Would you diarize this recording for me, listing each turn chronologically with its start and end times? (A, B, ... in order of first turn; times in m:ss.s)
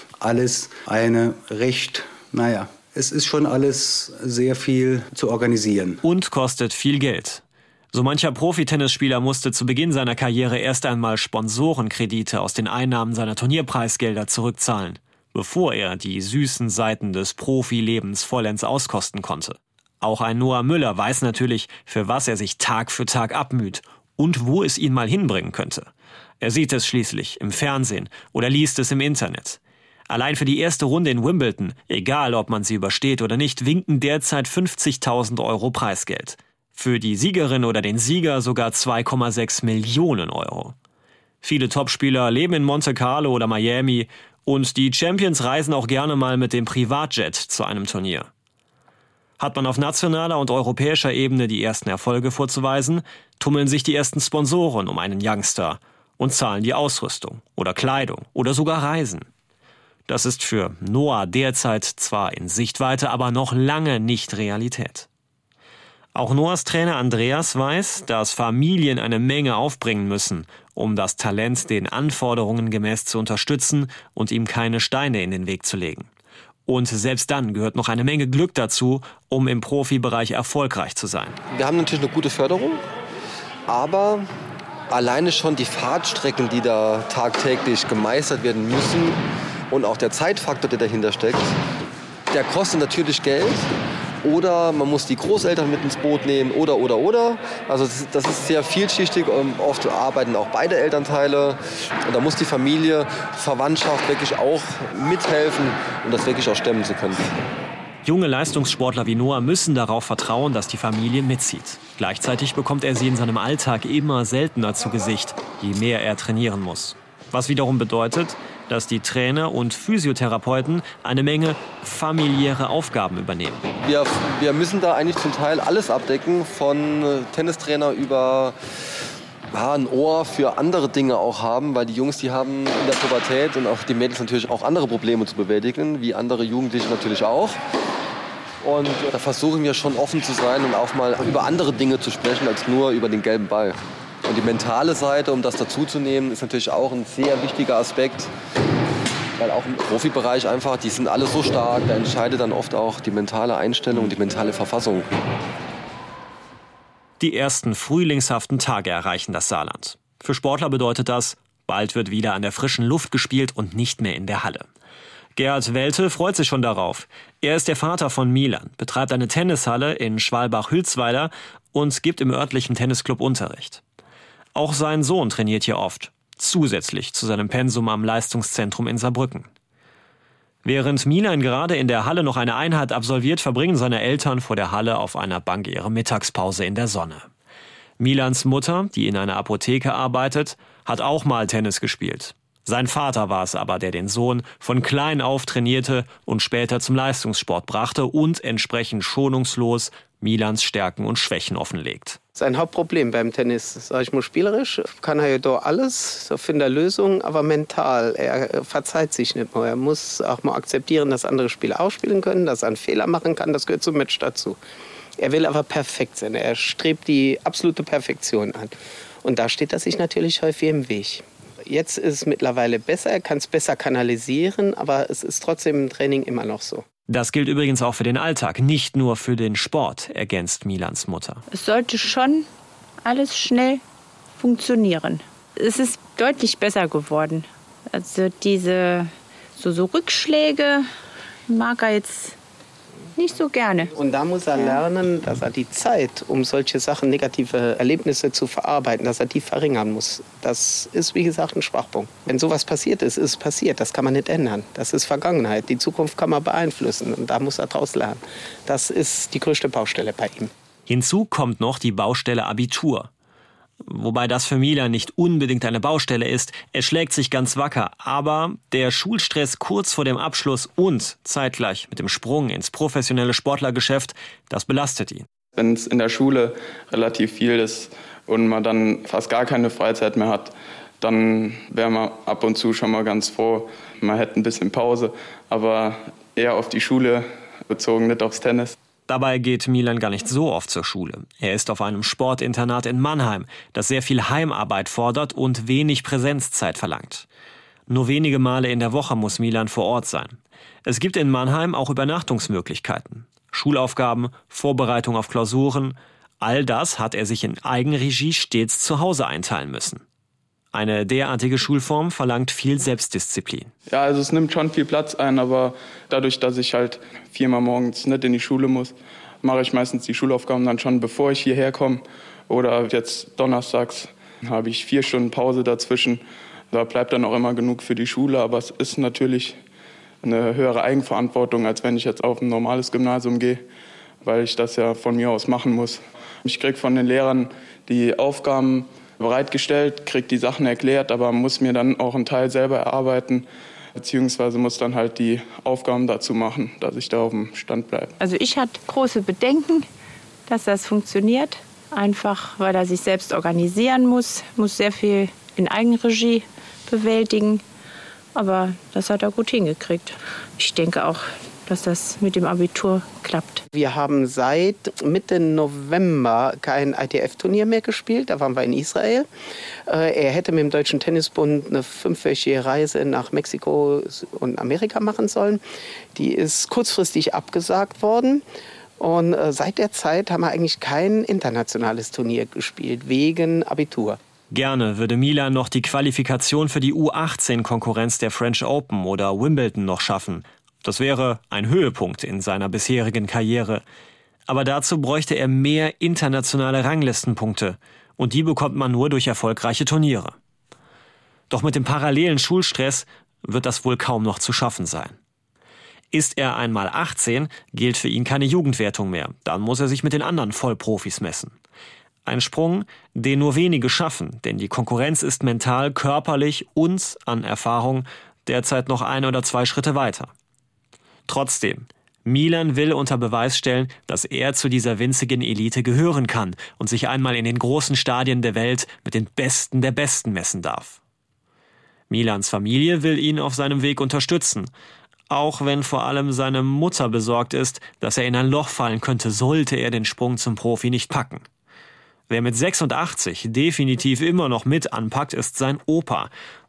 0:00.2-0:06.0 A
0:06.0-0:25.9 B
0:26.4-0:40.7 B
0:41.4-0:48.3 B
0:49.4-0:59.3 B
1:00.1-1:05.1 B
1:06.1-1:16.1 B
1:16.7-1:21.4 B
1:21.5-1:22.8 C
1:23.7-1:24.3 C
1:24.9-1:31.6 C
1:32.3-1:33.7 C
1:34.2-1:47.3 C
1:48.0-2:03.7 B
2:03.8-2:08.6 C
2:09.5-2:17.6 C
2:18.6-2:28.3 C
2:29.4-2:35.1 C
2:37.2-2:44.7 B
2:45.4-2:53.8 B
2:54.5-2:59.5 B
3:00.6-3:07.3 B
3:08.0-3:22.2 B
3:22.4-3:34.6 D
3:35.2-3:38.7 D
3:39.2-3:46.8 D
3:47.1-3:51.4 B
3:51.5-3:52.5 E
3:53.0-3:53.8 E
3:54.4-4:00.9 E
4:01.5-4:02.4 E
4:03.2-4:03.9 E
4:04.0-4:20.5 D
4:20.9-4:23.1 B
4:23.8-4:35.2 B
4:35.5-4:48.8 F
4:49.1-4:57.2 B
4:57.9-5:10.0 B
5:10.7-5:13.7 B
5:13.9-5:29.6 F
5:30.2-5:33.6 F
5:34.2-5:48.1 F
5:48.2-5:49.9 E
5:50.5-5:57.6 E
5:58.3-6:03.6 E
6:03.7-6:09.3 D
6:09.9-6:15.6 D
6:16.1-6:18.4 D
6:19.0-6:24.2 D
6:24.5-6:33.8 B
6:34.5-6:40.4 B
6:41.5-6:45.2 B
6:46.1-6:51.5 B
6:52.2-7:00.3 B
7:01.3-7:11.0 B
7:12.1-7:14.7 B
7:15.3-7:21.4 B
7:22.3-7:26.3 B